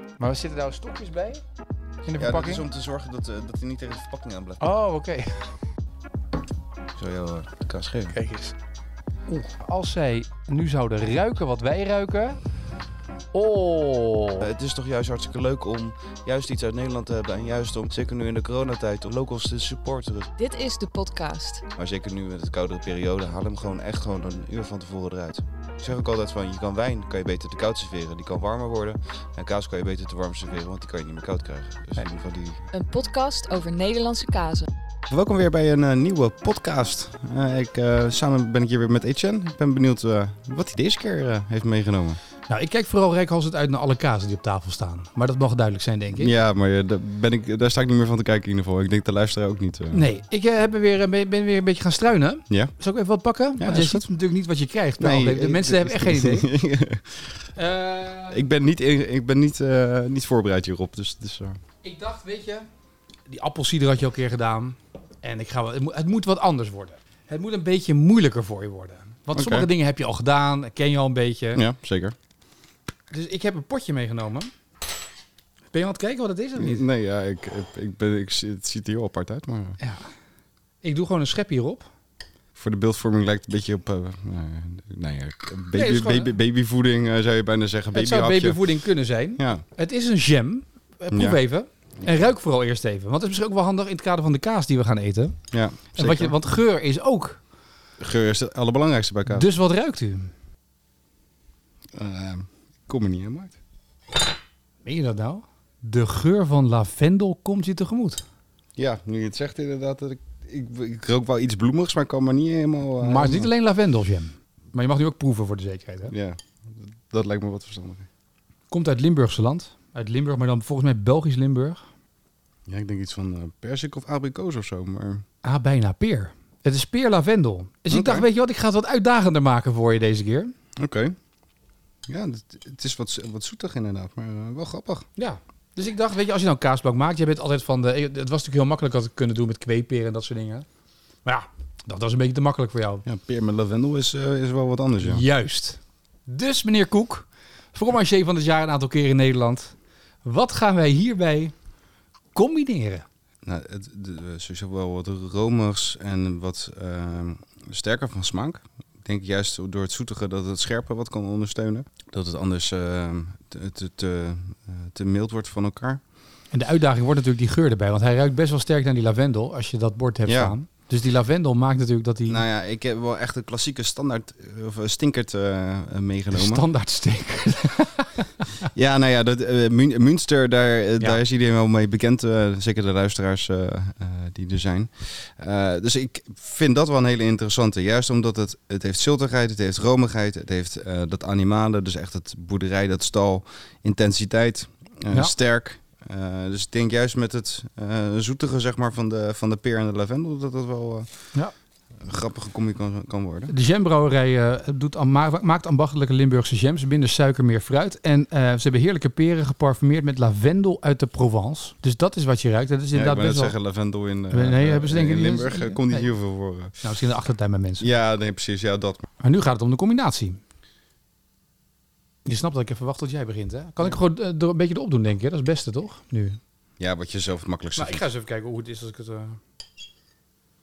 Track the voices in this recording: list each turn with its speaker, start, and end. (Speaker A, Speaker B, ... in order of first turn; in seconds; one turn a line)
Speaker A: 0.2-1.4
Speaker A: 2.0-2.6
Speaker B: 2.2-4.6
Speaker A: 4.6-5.5
Speaker B: 6.9-8.2
Speaker A: 8.1-8.6
Speaker A: 9.3-12.4
Speaker A: 13.3-14.5
Speaker B: 14.4-20.4
Speaker C: 20.4-21.6
Speaker B: 21.8-32.7
Speaker C: 32.7-34.7
Speaker B: 35.1-42.2
Speaker A: 42.5-46.3
Speaker B: 46.2-50.1
Speaker A: 49.9-56.5
Speaker B: 53.6-54.0
Speaker B: 55.0-57.3
Speaker A: 57.5-58.4
Speaker B: 58.3-61.6
Speaker A: 61.8-62.7
Speaker A: 63.3-71.6
Speaker B: 69.3-69.7
Speaker B: 71.5-72.1
Speaker A: 73.1-74.5
Speaker A: 75.7-76.8
Speaker B: 76.5-79.8
Speaker A: 79.8-80.0
Speaker A: 80.8-81.9
Speaker B: 82.5-88.6
Speaker A: 85.7-86.3
Speaker A: 87.9-95.4
Speaker B: 89.4-89.6
Speaker B: 91.1-91.4
Speaker B: 95.5-96.3
Speaker A: 96.0-97.4
Speaker B: 98.0-99.5
Speaker A: 99.3-100.3
Speaker B: 101.9-103.5
Speaker A: 104.8-108.2
Speaker B: 108.8-113.5
Speaker A: 113.0-116.1
Speaker B: 116.1-118.1
Speaker A: 118.7-121.8
Speaker B: 122.7-125.2
Speaker A: 125.4-130.5
Speaker B: 127.9-128.2
Speaker B: 130.8-131.1
Speaker B: 132.1-135.1
Speaker A: 135.2-140.7
Speaker A: 141.2-143.0
Speaker B: 143.0-145.2
Speaker A: 145.0-151.5
Speaker A: 152.3-153.0
Speaker B: 153.4-166.0
Speaker A: 166.5-172.4
Speaker B: 170.2-170.5
Speaker B: 172.3-176.7
Speaker A: 176.3-178.5
Speaker B: 178.7-201.1
Speaker B: 202.0-203.5
Speaker A: 203.5-213.5
Speaker B: 212.9-216.8
Speaker A: 214.3-216.1
Speaker A: 216.8-217.9
Speaker B: 217.8-219.1
Speaker A: 219.2-220.4
Speaker A: 222.2-226.4
Speaker B: 226.8-228.0
Speaker A: 227.8-229.4